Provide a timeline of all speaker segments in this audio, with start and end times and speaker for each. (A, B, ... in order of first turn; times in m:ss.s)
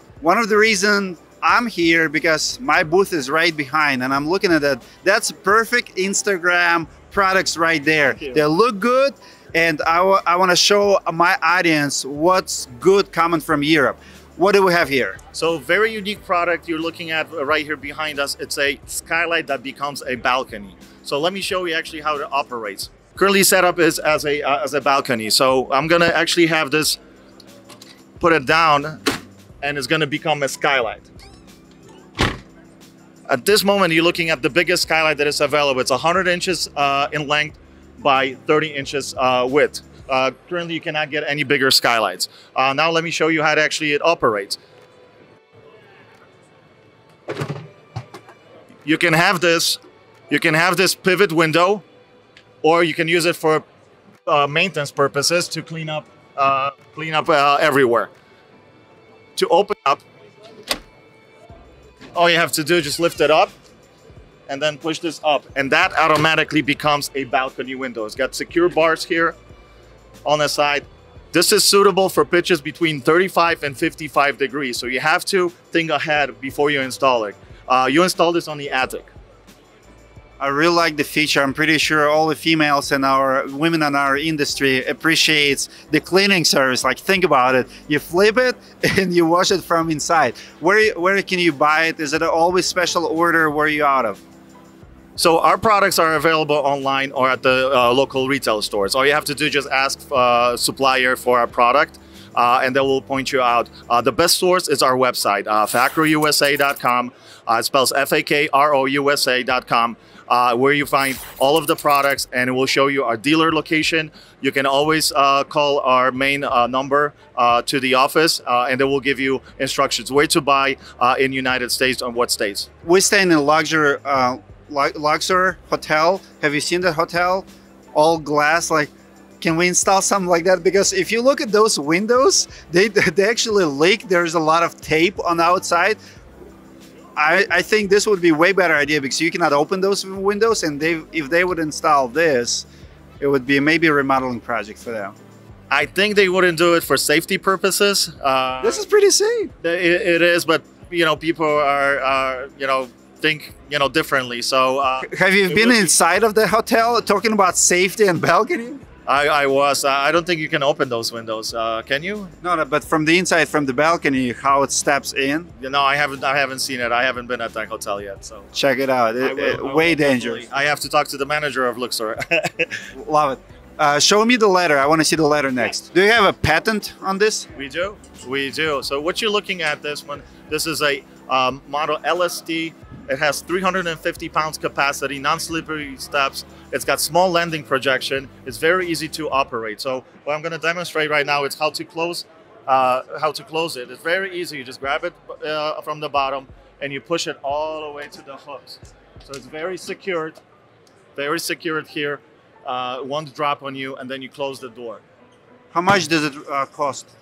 0:00.2-0:15.2 A
0:08.1-0:08.4 B
0:15.3-0:27.0 B
0:28.2-0:29.0 B
0:29.6-0:31.1 B
0:33.3-0:44.6 B
0:48.8-0:49.8 B
0:50.3-0:51.8 B
0:52.6-0:53.6 B
0:54.3-0:58.1 B
0:59.4-1:00.0 B
1:02.1-1:03.5 B
1:04.5-1:09.4 B
1:10.2-1:19.1 B
1:20.4-1:34.2 A
1:35.2-2:02.7 B
2:02.8-2:16.0 A
2:17.2-2:22.7 A
2:23.2-2:25.1 A
2:25.7-2:28.8 B
2:28.6-2:29.5 A
2:29.6-2:36.0 B
2:35.0-2:38.8 A
2:39.1-2:42.3 B
2:42.4-2:45.5 A
2:45.6-2:48.5 B
2:48.5-2:50.4 A
2:49.2-2:52.9 B
2:53.0-2:57.5 A
2:57.6-3:20.4 B
3:21.2-3:25.0 B
3:25.7-3:27.1 A